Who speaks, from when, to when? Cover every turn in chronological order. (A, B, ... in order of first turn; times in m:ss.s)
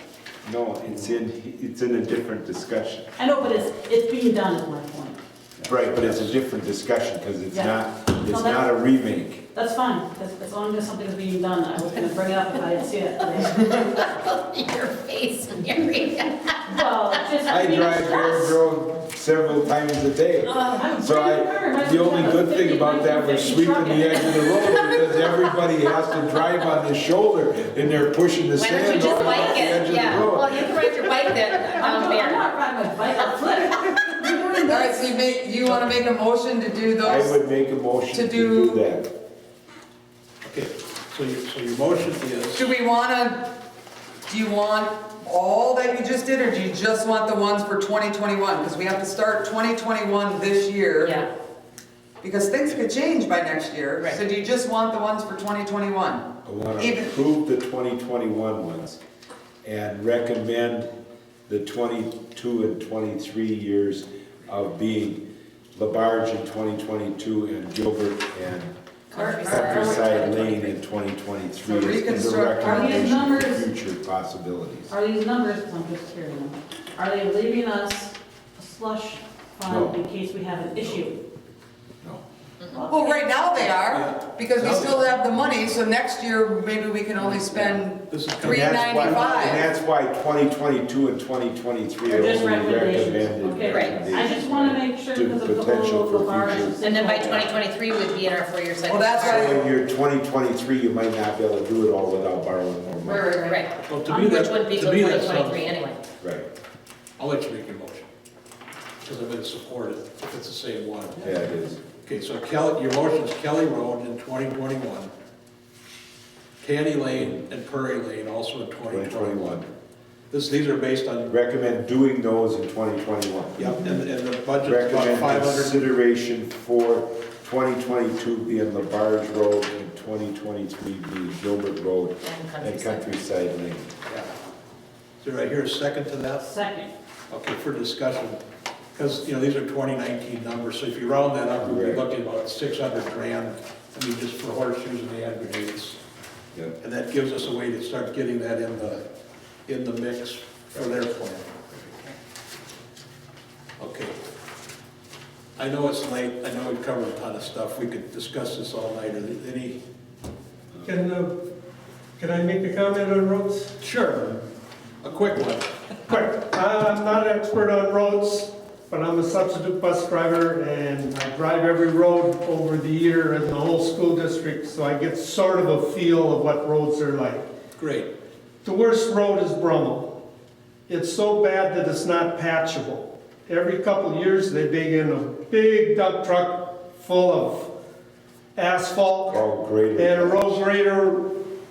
0:00.4-0:03.1 A
0:03.2-0:05.2 B
0:05.6-0:09.4 A
0:07.5-0:08.7 B
0:09.5-0:13.6 B
0:13.7-0:16.5 C
0:16.6-0:18.5 B
0:17.4-0:31.0 A
0:20.4-0:24.4 B
0:28.6-0:32.3 C
0:31.7-0:35.0 B
0:34.6-0:37.4 D
0:37.0-0:39.1 A
0:38.1-0:38.9 D
0:40.4-0:42.6 E
0:42.5-0:43.6 D
0:44.3-0:51.2 D
0:52.2-0:57.1 D
0:56.4-0:59.0 A
0:59.6-1:00.9 A
1:01.5-1:08.7 A
1:09.1-1:10.5 B
1:09.4-1:14.9 A
1:11.6-1:13.0 D
1:12.6-1:13.7 B
1:14.9-1:21.2 B
1:19.6-1:20.0 A
1:22.7-1:23.8 B
1:22.8-1:29.7 D
1:23.8-1:25.1 E
1:28.1-1:29.4 E
1:28.4-1:36.8 A
1:32.0-1:37.5 B
1:36.9-1:39.4 C
1:37.1-1:37.5 E
1:38.9-1:39.7 D
1:39.1-1:43.4 A
1:43.0-1:43.7 B
1:43.7-1:45.8 E
1:44.3-1:46.0 C
1:46.2-1:46.5 A
1:47.2-1:48.1 E
1:49.0-1:51.4 E
1:51.2-1:51.8 A
1:52.0-1:55.1 E
1:56.6-1:59.6 E
1:58.9-1:59.7 A
2:00.3-2:01.3 E
2:01.3-2:03.7 A
2:03.6-2:05.9 E
2:04.6-2:13.9 A
2:12.3-2:13.0 C
2:15.2-2:16.5 E
2:16.4-2:16.9 B
2:17.3-2:18.4 E
2:18.9-2:26.0 E
2:21.6-2:22.0 A
2:26.8-2:29.0 E
2:29.6-2:31.7 E
2:33.8-2:34.2 E
2:35.6-2:39.8 E
2:40.8-2:41.4 F
2:42.2-2:43.8 F
2:43.8-2:44.4 E
2:45.0-2:45.7 E
2:46.1-2:57.4 F
2:57.8-2:58.1 E
2:58.6-3:00.2 F
3:00.9-3:07.7 F
3:08.5-3:09.4 F
3:09.3-3:10.6 A
3:09.9-3:11.5 F